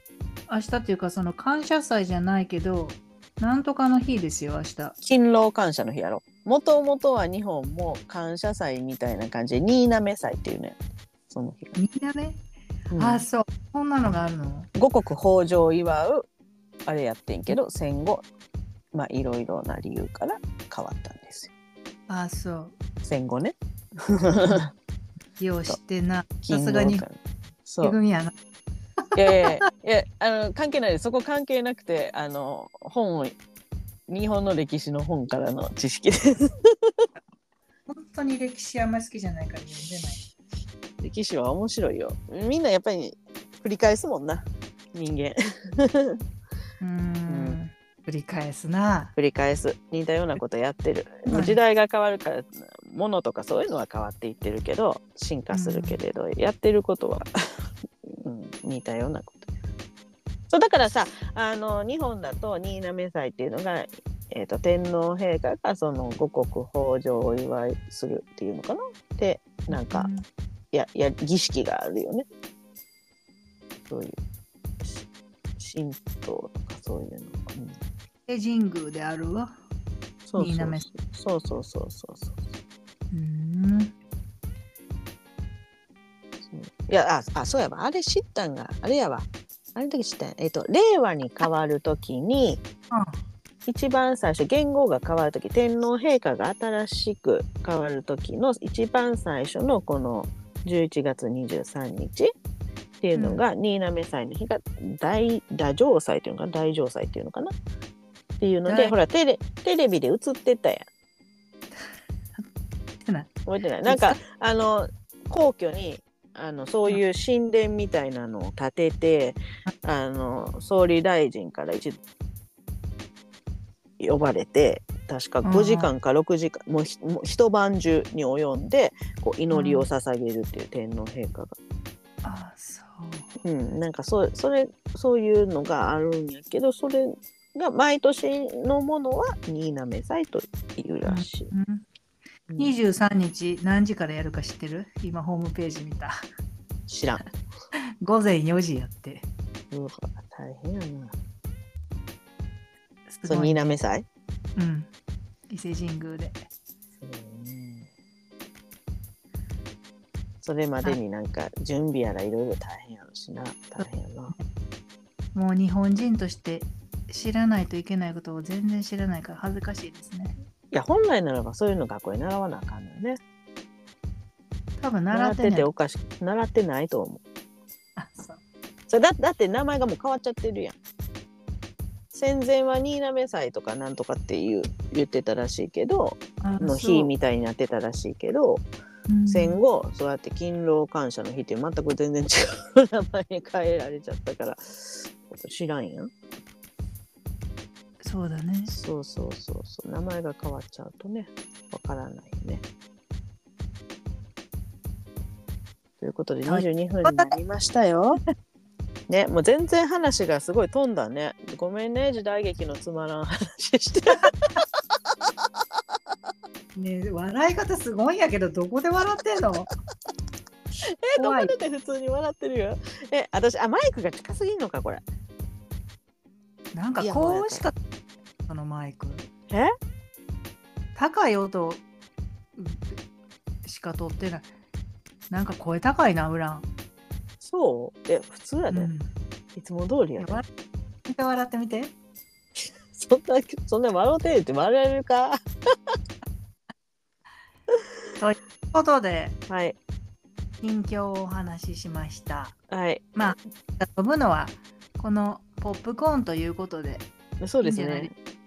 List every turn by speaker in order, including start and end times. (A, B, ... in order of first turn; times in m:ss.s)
0:00.5-0:05.0 A
0:05.0-0:10.8 B
0:11.3-0:11.8 B
0:11.8-0:12.4 A
0:12.9-0:13.2 B
0:13.0-0:14.7 A
0:14.8-0:16.3 B
0:16.9-0:18.2 B
0:18.9-0:21.5 B
0:22.1-0:22.8 A
0:23.0-0:24.7 B
0:25.4-0:27.0 A
0:26.4-0:28.0 B
0:27.8-0:28.3 A
0:29.1-0:29.6 A
0:29.2-0:33.4 B
0:34.1-0:37.0 B
0:37.9-0:40.2 A
0:41.0-0:46.2 B
0:46.8-0:49.1 A
0:47.3-0:47.6 B
0:49.2-0:57.3 B
0:51.3-0:51.6 A
0:55.5-0:56.0 A
0:58.1-0:59.4 B
1:00.5-1:10.1 B
1:09.7-1:10.2 A
1:10.7-1:12.3 B
1:13.9-1:14.2 B
1:14.8-1:15.1 B
1:15.6-1:17.8 B
1:18.3-1:19.5 A
1:20.3-1:22.4 B
1:20.4-1:20.9 A
1:23.1-1:23.9 A
1:26.5-1:32.6 B
1:32.9-1:33.2 A
1:33.7-1:42.3 B
1:43.0-1:47.5 B
1:43.2-1:43.4 A
1:48.4-1:50.9 B
1:48.7-1:49.0 A
1:53.0-1:53.3 A
1:53.5-2:02.0 B
1:53.8-1:54.2 A
2:04.0-2:11.6 B
2:05.4-2:05.9 A
2:09.5-2:09.9 A
2:12.2-2:13.3 A
2:13.4-2:21.5 B
2:21.0-2:21.9 A
2:22.5-2:22.7 B
2:22.6-2:26.3 A
2:26.9-2:27.2 B
2:28.0-2:29.3 A
2:29.7-2:31.1 B
2:33.1-2:33.8 A
2:33.3-2:34.1 B
2:34.6-2:34.9 A
2:35.5-2:36.4 A
2:37.0-2:37.9 B
2:40.4-2:44.3 B
2:43.8-2:44.4 A
2:45.4-2:50.4 A
2:50.7-2:53.2 B
2:54.8-2:55.7 A
2:55.1-2:57.2 B
2:58.0-2:58.4 A
2:58.9-3:00.8 B
3:02.1-3:08.7 B
3:06.4-3:07.1 A
3:09.1-3:09.6 A
3:09.3-3:16.1 B
3:18.0-3:18.7 A
3:18.7-3:22.6 B
3:26.0-3:28.2 B
3:26.5-3:27.4 A
3:29.1-3:34.3 B
3:36.8-3:39.7 A
3:40.8-3:45.0 B
3:41.2-3:41.5 A
3:46.8-3:47.8 A
3:47.0-3:47.6 B
3:48.5-3:49.3 A
3:51.0-3:51.8 A
3:52.6-3:53.0 A
3:53.6-3:54.5 A
3:55.3-3:56.7 A
3:57.4-3:58.9 B
3:58.7-3:59.1 A
3:59.6-4:00.4 B
4:00.2-4:00.4 A
4:01.1-4:01.9 A
4:02.9-4:05.4 B
4:08.2-4:09.4 A
4:09.5-4:09.8 B
4:10.6-4:12.6 A
4:12.7-4:13.2 B
4:13.2-4:17.1 A
4:17.4-4:18.1 B
4:17.6-4:18.1 A